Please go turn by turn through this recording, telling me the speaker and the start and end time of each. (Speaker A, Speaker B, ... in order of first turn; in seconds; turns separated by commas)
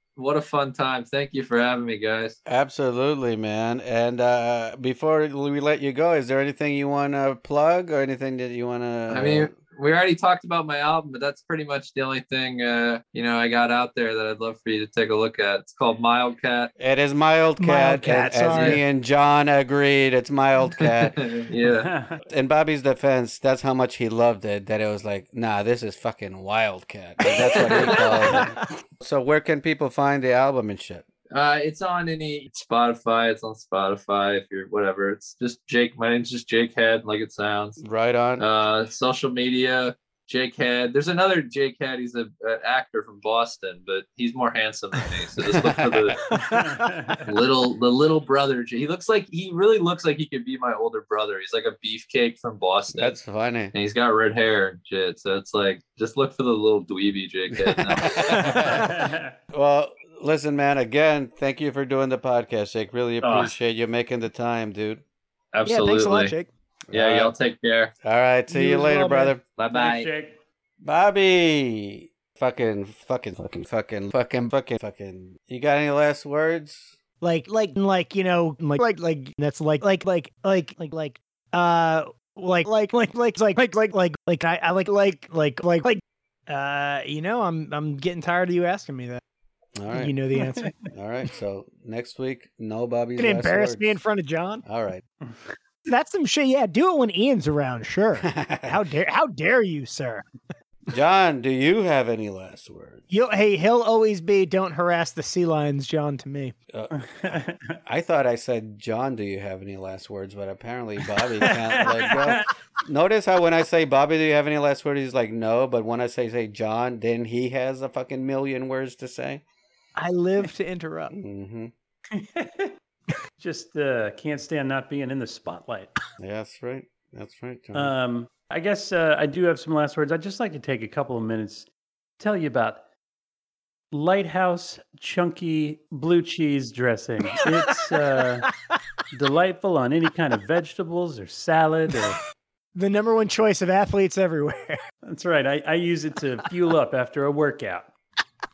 Speaker A: 0.2-2.4, Speaker B: 2.5-9.5, Speaker A: 9.1-16.7, Speaker B: 16.8-21.3, Speaker C: 17.6-18.8, Speaker A: 18.5-18.8, Speaker A: 20.8-21.9, Speaker D: 21.7-22.2, Speaker B: 22.3-31.1, Speaker A: 27.2-28.6, Speaker A: 31.3-37.8, Speaker B: 37.8-38.5, Speaker A: 38.4-46.3, Speaker B: 45.5-46.1, Speaker C: 46.3-46.9, Speaker D: 46.5-47.3, Speaker A: 47.2-53.1, Speaker B: 52.9-53.7, Speaker A: 53.7-58.8, Speaker B: 58.0-65.0, Speaker C: 58.1-58.9, Speaker D: 58.7-59.3, Speaker A: 63.2-63.5, Speaker A: 65.5-66.3, Speaker C: 65.7-66.5, Speaker B: 66.9-67.3, Speaker A: 66.9-67.9, Speaker B: 68.0-69.4, Speaker C: 68.5-69.3, Speaker A: 69.6-70.1, Speaker D: 69.7-70.4, Speaker B: 70.8-76.9, Speaker C: 77.2-89.2, Speaker B: 89.8-90.2, Speaker C: 89.9-90.7, Speaker D: 90.4-90.7, Speaker B: 90.9-94.0, Speaker C: 93.2-94.6, Speaker B: 94.7-95.0, Speaker C: 95.9-100.2, Speaker B: 98.2-98.8, Speaker B: 100.9-103.0, Speaker C: 103.1-106.5, Speaker B: 106.7-119.4, Speaker D: 107.0-107.8, Speaker D: 111.4-112.4, Speaker C: 120.0-121.1, Speaker B: 121.1-121.7, Speaker D: 122.1-122.7, Speaker D: 123.4-125.9, Speaker B: 126.2-127.9, Speaker D: 127.8-131.7, Speaker D: 132.2-132.8, Speaker D: 133.9-138.5, Speaker C: 137.4-137.7, Speaker D: 139.1-142.2, Speaker C: 142.8-144.8, Speaker D: 145.1-147.9